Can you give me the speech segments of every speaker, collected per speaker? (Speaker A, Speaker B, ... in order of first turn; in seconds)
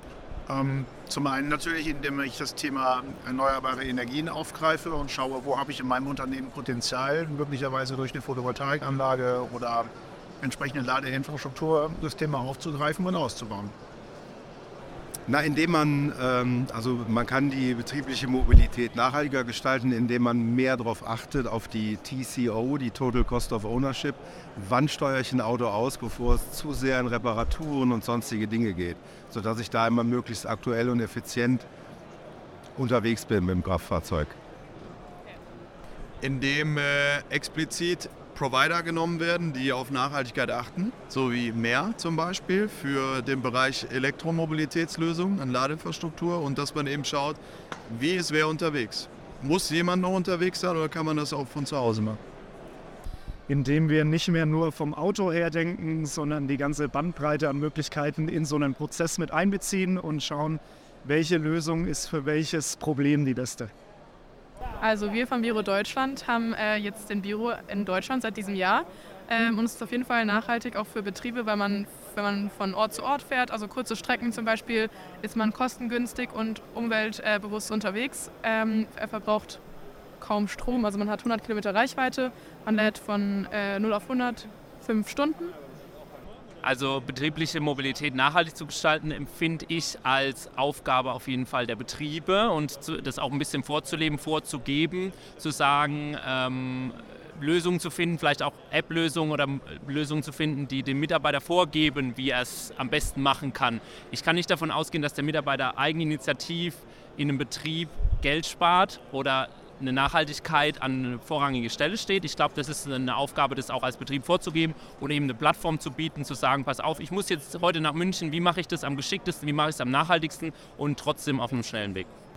Speaker A: 0.5-9.9, 10.4-13.7
Speaker B: 15.3-31.7, 32.8-34.4
Speaker C: 36.2-52.2
Speaker D: 53.5-63.7
Speaker E: 64.8-79.6, 80.2-85.5
Speaker F: 86.6-122.1